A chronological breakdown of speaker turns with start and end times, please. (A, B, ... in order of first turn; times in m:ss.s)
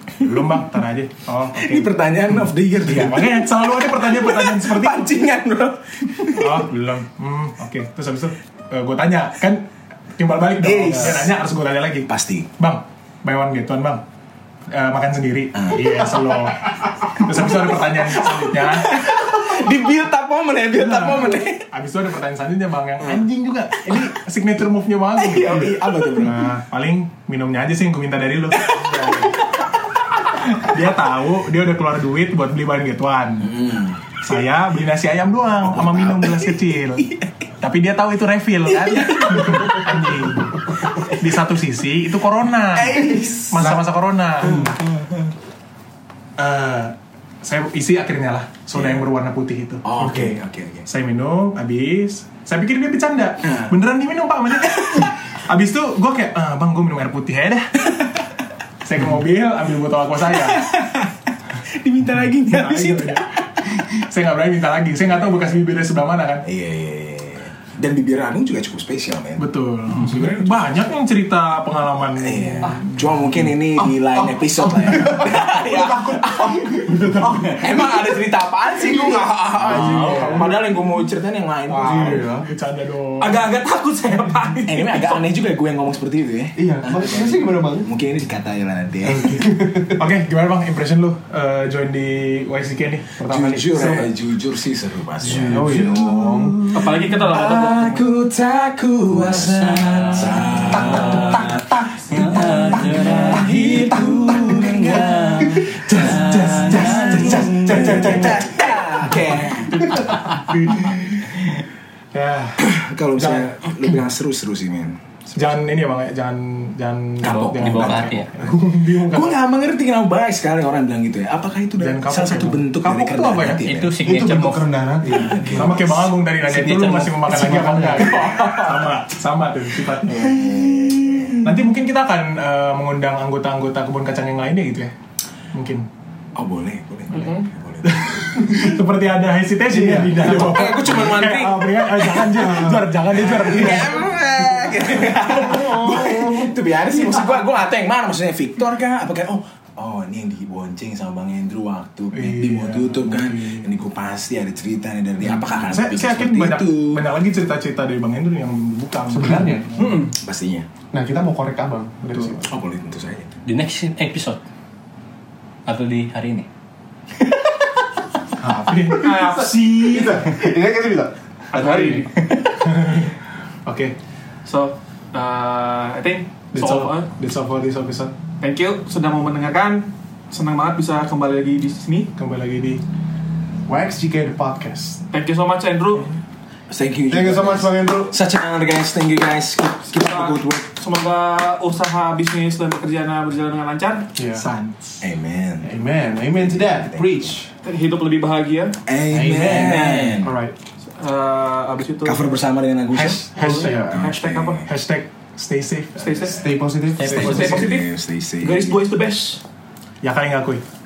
0:00.2-0:02.0 A
0:01.5-0:06.6 B
0:02.8-0:05.1 A
0:06.3-0:14.0 A
0:10.6-0:11.3 B
0:12.1-0:12.5 B
0:14.7-0:19.0 A
0:15.5-0:16.4 B
0:17.2-0:21.7 B
0:20.7-0:29.4 A
0:23.0-0:23.3 B
0:25.2-0:26.4 B
0:28.7-0:29.2 B
0:30.5-0:44.8 A
0:33.4-0:34.0 B
0:35.6-0:36.5 B
0:38.9-0:39.8 B
0:42.7-0:43.8 B
0:44.4-0:44.7 C
0:46.4-0:49.8 A
0:48.7-0:49.0 B
0:49.8-0:50.9 B
0:50.0-0:50.4 C
0:50.9-0:57.9 A
0:53.4-0:53.7 B
0:54.7-0:55.1 B
0:58.8-1:00.7 A
1:00.3-1:03.9 B
1:02.4-1:06.4 A
1:06.4-1:10.5 B
1:09.4-1:13.0 A
1:12.2-1:16.8 B
1:14.6-1:18.1 C
1:16.9-1:17.5 A
1:17.4-1:22.3 B
1:18.8-1:20.4 C
1:19.6-1:20.6 A
1:19.7-1:20.4 D
1:21.7-1:22.5 C
1:21.9-1:23.4 A
1:23.2-1:25.2 E
1:24.7-1:29.6 B
1:26.6-1:27.9 C
1:29.0-1:30.0 C
1:29.9-1:34.1 A
1:33.2-1:50.1 B
1:35.2-1:36.6 A
1:35.3-1:36.3 C
1:36.7-1:38.0 E
1:39.2-1:41.5 D
1:40.7-1:50.8 C
1:42.1-1:47.5 D
1:50.2-1:50.4 D
1:50.5-1:50.9 A
1:52.1-1:53.5 A
1:52.6-1:55.6 B
1:55.3-1:59.4 A
1:57.2-2:04.0 B
1:57.2-1:58.3 D
2:01.8-2:02.8 A
2:02.8-2:05.8 C
2:03.6-2:04.7 D
2:05.1-2:06.1 B
2:05.5-2:10.3 A
2:06.4-2:08.0 D
2:08.0-2:08.4 C
2:10.0-2:11.4 B
2:11.4-2:14.9 A
2:15.5-2:15.8 A
2:16.4-2:18.4 B
2:17.1-2:17.5 E
2:17.8-2:24.1 A
2:18.4-2:18.7 C
2:19.7-2:20.6 C
2:20.1-2:37.0 B
2:25.0-2:26.5 C
2:32.1-2:33.7 A
2:35.6-2:40.1 A
2:39.1-2:39.8 C
2:39.8-2:40.1 E
2:40.1-2:40.7 B
2:40.9-2:42.5 C
2:42.0-2:42.4 A
2:42.4-2:43.4 B
2:43.4-2:44.4 D
2:45.6-2:46.5 D
2:48.4-2:50.3 A
2:48.4-2:52.4 C
2:49.0-2:49.5 E
2:51.5-2:52.2 E
2:52.6-2:53.1 A
2:53.6-2:54.0 A
2:54.4-2:57.1 E
2:56.5-2:58.1 A
2:58.4-3:02.1 E
3:02.1-3:02.8 A
3:03.7-3:05.0 C
3:05.1-3:06.2 E
3:06.7-3:10.7 B
3:07.1-3:08.2 C
3:09.9-3:14.1 E
3:14.2-3:14.4 C
3:14.3-3:15.0 A
3:15.0-3:15.8 B
3:15.6-3:17.5 C
3:16.3-3:17.4 B
3:17.6-3:18.8 E
3:18.8-3:20.3 B
3:19.1-3:20.5 C
3:20.8-3:22.3 E
3:22.0-3:24.7 B
3:22.9-3:24.7 E
3:23.3-3:24.0 A
3:23.4-3:23.9 C
3:24.6-3:26.4 A
3:26.0-3:26.4 E
3:26.3-3:27.5 C
3:27.0-3:27.6 D
3:27.0-3:28.9 B
3:27.0-3:29.4 E
3:30.0-3:30.6 A